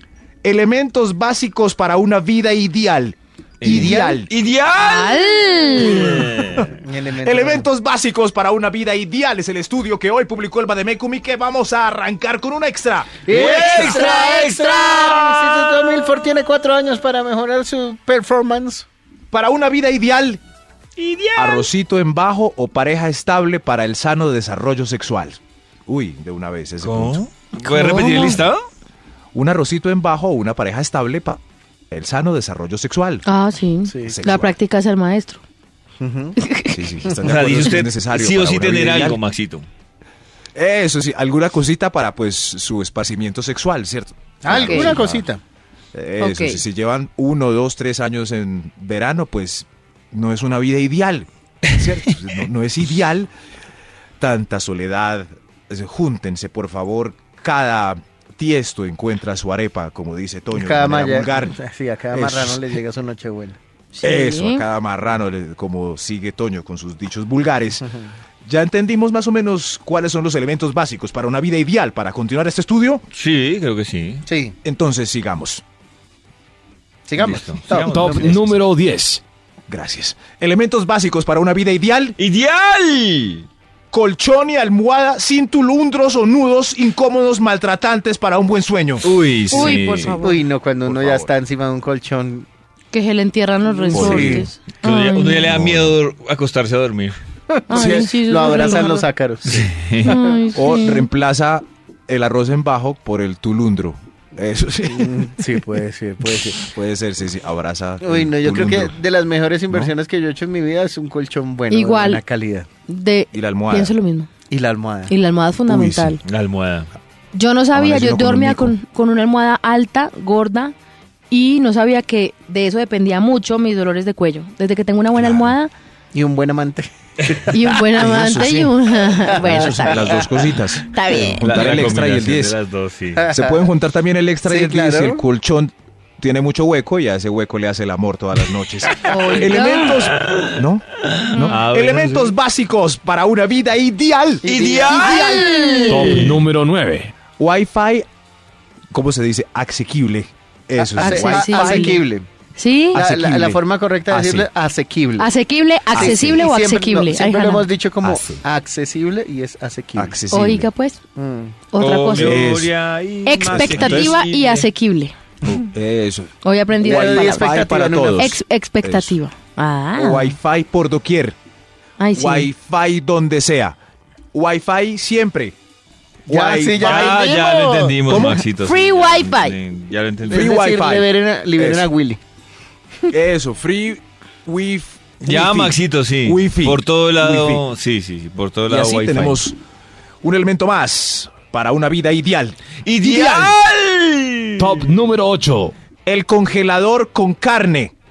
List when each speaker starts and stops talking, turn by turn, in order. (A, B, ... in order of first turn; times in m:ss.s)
0:00.4-0:04.3 A
0:03.6-0:06.7 B
0:03.6-0:04.2 C
0:04.8-0:06.2 D
0:05.8-0:06.6 A
0:06.7-0:07.7 C
0:07.2-0:14.0 A
0:13.2-0:18.8 C
0:13.3-0:16.1 B
0:19.3-0:20.4 A
0:21.0-0:21.7 B
0:21.4-0:27.2 A
0:26.8-0:28.6 B
0:27.6-0:28.4 D
0:29.3-0:31.4 A
0:31.9-0:33.2 A
0:33.2-0:35.4 D
0:33.8-0:34.2 C
0:34.0-0:34.5 A
0:36.0-0:36.4 C
0:36.4-0:36.9 D
0:36.7-0:39.2 A
0:37.2-0:39.7 B
0:40.5-0:45.2 A
0:44.4-0:45.4 C
0:44.5-0:45.0 D
0:45.9-0:53.3 A
0:46.2-0:46.6 D
0:54.2-1:01.6 A
1:00.5-1:03.6 C
1:02.1-1:02.6 A
1:03.9-1:04.6 D
1:04.0-1:07.8 A
1:08.4-1:13.0 A
1:13.1-1:14.2 B
1:14.2-1:14.6 C
1:14.6-1:15.6 A
1:17.1-1:18.4 C
1:17.2-1:18.6 B
1:17.7-1:19.2 E
1:19.7-1:22.2 A
1:22.2-1:23.4 B
1:23.9-1:29.8 A
1:29.0-1:30.2 B
1:29.5-1:30.5 D
1:30.2-1:32.5 C
1:30.8-1:31.3 A
1:32.9-1:35.5 D
1:33.9-1:34.4 A
1:33.9-1:34.5 C
1:34.8-1:37.1 B
1:35.4-1:36.0 A
1:37.5-1:39.6 C
1:37.7-1:39.0 D
1:37.7-1:38.1 A
1:39.4-1:40.1 B
1:40.0-1:41.1 D
1:40.5-1:45.4 A
1:44.9-1:46.7 C
1:46.6-1:49.0 A
1:48.0-1:52.7 C
1:51.7-1:52.2 D
1:52.8-1:54.3 D
1:53.3-1:53.9 A
1:54.5-1:55.1 C
1:55.1-1:56.2 D
1:55.6-1:56.2 A
1:56.2-1:56.9 B
1:57.3-2:00.7 D
1:57.7-1:58.8 A
2:01.3-2:05.7 D
2:05.2-2:05.5 A
2:06.1-2:07.9 C
2:07.5-2:10.2 D
2:07.7-2:08.7 A
2:09.1-2:10.4 C
2:09.4-2:12.6 A
2:10.9-2:11.4 D
2:11.4-2:13.2 B
2:13.1-2:13.7 C
2:13.3-2:25.6 A
2:14.4-2:15.2 C
2:19.0-2:20.0 D
2:19.6-2:22.3 B
2:24.4-2:25.9 C
2:24.4-2:25.3 B
2:24.9-2:26.4 D
2:25.9-2:27.1 E
2:27.4-2:28.0 A
2:28.9-2:31.9 A
2:30.7-2:32.3 C
2:31.0-2:32.0 D
2:32.6-2:33.0 D
2:32.9-2:34.5 A
2:32.9-2:35.3 C
2:35.2-2:37.7 D
2:35.9-2:36.4 A
2:36.0-2:40.2 C
2:38.0-2:38.4 B
2:39.9-2:40.7 A
2:40.3-2:41.0 D
2:41.2-2:41.6 C
2:41.7-2:42.5 D
2:41.8-2:44.7 B
2:42.1-2:42.7 A
2:43.2-2:45.1 D
2:43.4-2:43.9 C
2:43.6-2:44.1 A
2:45.4-2:49.1 A
2:46.4-2:47.6 D
2:46.8-2:48.3 C
2:48.2-2:50.4 D
2:49.9-2:51.3 A
2:52.0-2:52.5 D
2:52.1-2:53.8 A
2:54.3-2:55.5 A
2:56.3-2:57.2 A
2:56.3-2:57.2 C
2:56.8-3:00.5 B
2:57.1-2:58.0 D
2:58.0-2:58.4 A
2:58.5-2:59.6 D
3:00.3-3:01.9 A
3:00.3-3:02.2 C
3:03.1-3:07.6 A
3:05.2-3:09.4 B
3:08.7-3:09.6 A
3:10.2-3:13.6 A
3:12.8-3:14.9 B
3:14.6-3:15.7 E
3:16.0-3:17.9 A